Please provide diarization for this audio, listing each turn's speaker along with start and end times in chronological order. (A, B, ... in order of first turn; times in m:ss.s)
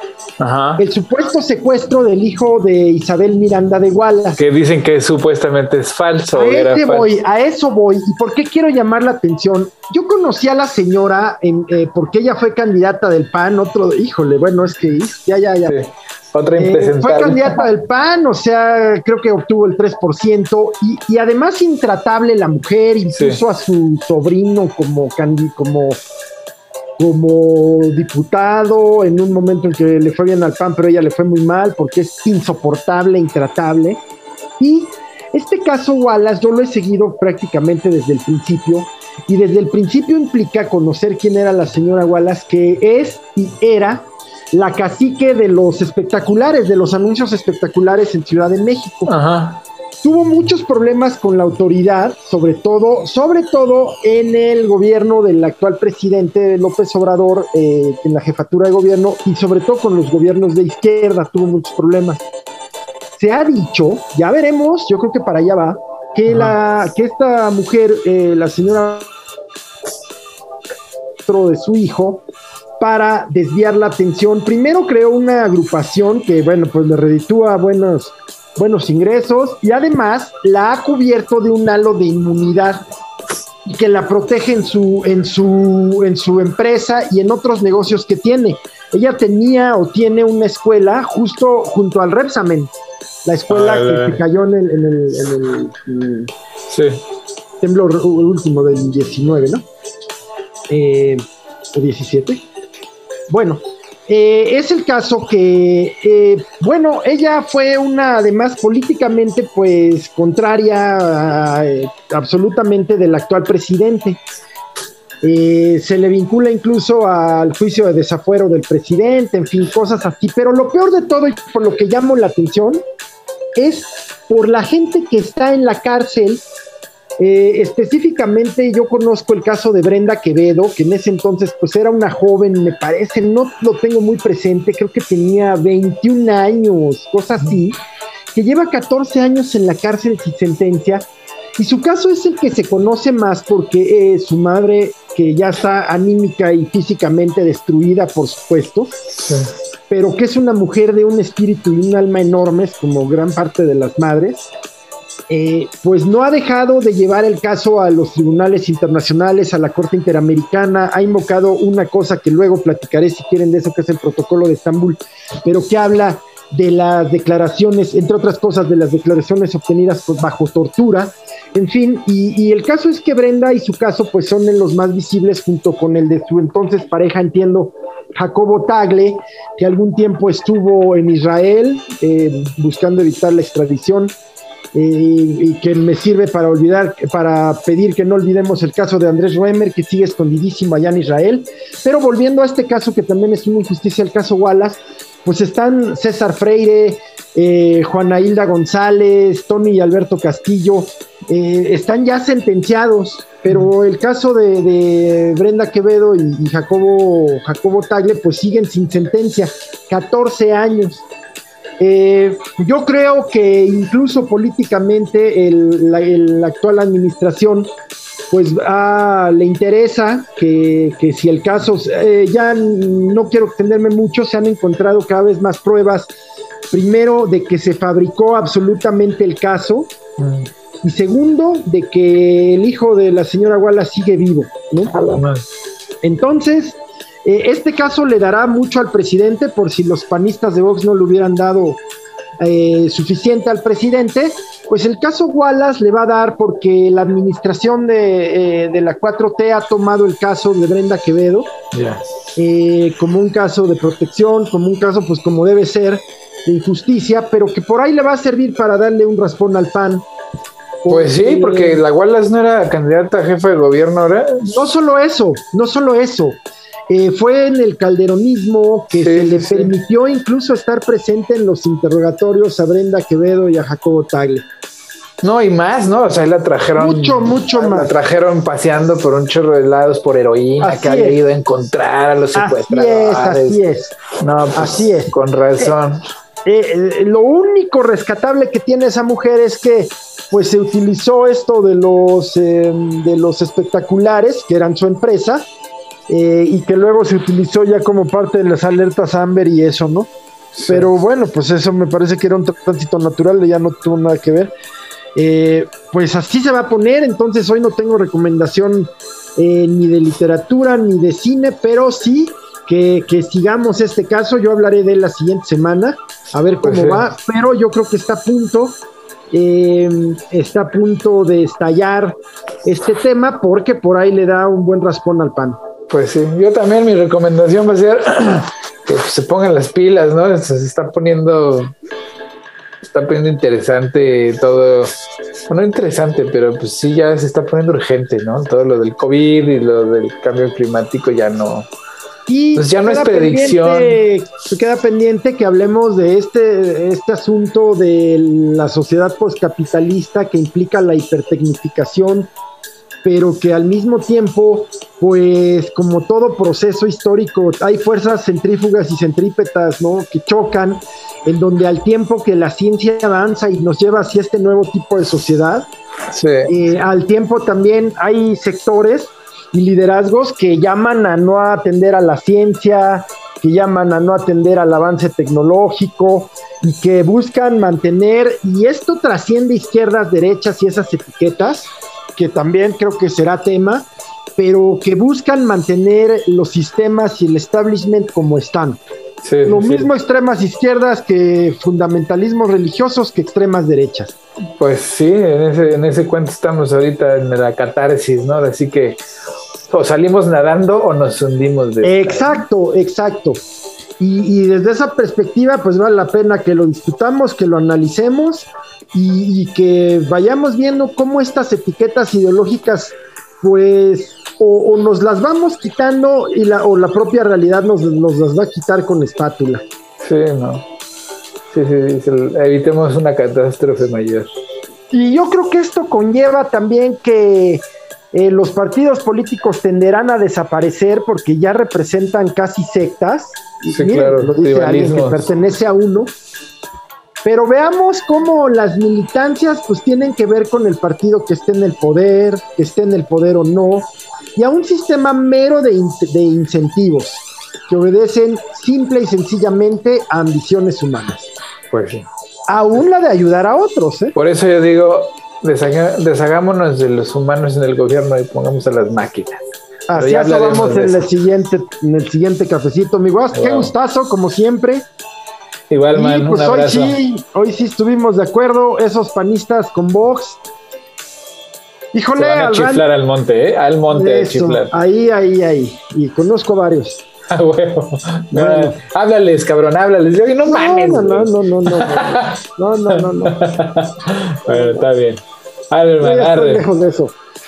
0:00.4-0:00.8 A
0:00.8-0:04.4 B
0:04.4-0:07.2 A
0:06.3-0:15.8 B
0:15.6-0:17.7 A
0:16.6-0:26.0 B
0:23.1-0:23.4 A
0:27.0-0:34.0 B
0:34.6-0:49.1 B
0:49.1-0:49.6 A
0:50.0-1:02.2 B
1:03.2-1:09.1 B
1:06.3-1:06.5 A
1:11.2-1:12.2 B
1:12.8-1:22.8 B
1:23.6-1:32.7 B
1:33.2-1:36.3 B
1:33.5-1:34.2 A
1:36.7-1:37.0 A
1:37.6-1:39.6 B
1:40.7-1:42.4 B
1:43.3-1:54.2 B
1:55.2-2:02.8 B
2:03.6-2:06.4 B
2:07.2-2:17.8 B
2:18.3-2:21.0 B
2:21.6-2:29.0 B
2:29.2-2:29.5 A
2:29.9-2:34.5 B
2:35.3-3:04.1 B
3:04.7-3:31.0 B
3:31.8-3:37.7 B
3:38.3-3:46.1 B
3:46.7-3:49.9 B
3:50.2-3:50.5 A
3:50.8-3:55.2 B
3:54.9-3:55.4 A
3:56.0-4:01.8 B
4:02.4-4:11.5 B
4:11.7-4:12.0 A
4:12.4-4:20.0 B
4:20.8-4:21.8 B
4:20.9-4:24.6 A
4:24.5-4:34.4 B
4:29.0-4:29.7 A
4:35.2-4:43.7 A
4:36.8-4:37.9 B
4:40.6-4:41.2 B
4:42.3-4:44.0 B
4:44.2-4:46.1 A
4:44.6-4:45.7 B
4:46.4-4:55.5 B
4:56.1-5:00.1 B
5:00.6-5:00.9 A
5:00.7-5:04.5 B
5:05.1-5:18.8 B
5:16.6-5:17.0 A
5:19.3-5:25.6 B
5:25.9-5:31.7 A
5:32.9-5:35.0 A
5:35.5-5:41.7 A
5:42.3-5:52.3 B
5:42.5-5:44.0 A
5:53.0-6:05.7 B
6:06.1-6:06.5 A
6:06.5-6:28.8 B
6:29.2-6:29.9 A
6:29.4-6:34.1 B
6:34.6-6:39.0 A
6:39.7-6:42.4 A
6:41.8-6:43.4 B
6:44.0-6:59.6 B
7:00.0-7:00.6 A
7:01.5-7:04.3 A
7:04.9-7:16.1 B
7:13.7-7:15.2 A
7:17.2-7:31.3 B
7:31.7-7:32.1 A
7:32.5-7:34.1 B
7:34.1-7:41.1 A
7:39.9-7:44.8 B
7:43.3-7:43.7 A
7:45.7-7:47.0 A
7:45.9-7:50.4 B
7:51.9-7:52.8 B
7:52.1-7:54.7 A
7:53.9-7:57.0 B
7:57.3-8:02.4 A
7:58.3-7:58.7 B
8:00.4-8:03.4 B
8:02.9-8:06.6 A
8:04.5-8:04.8 B
8:06.0-8:07.1 B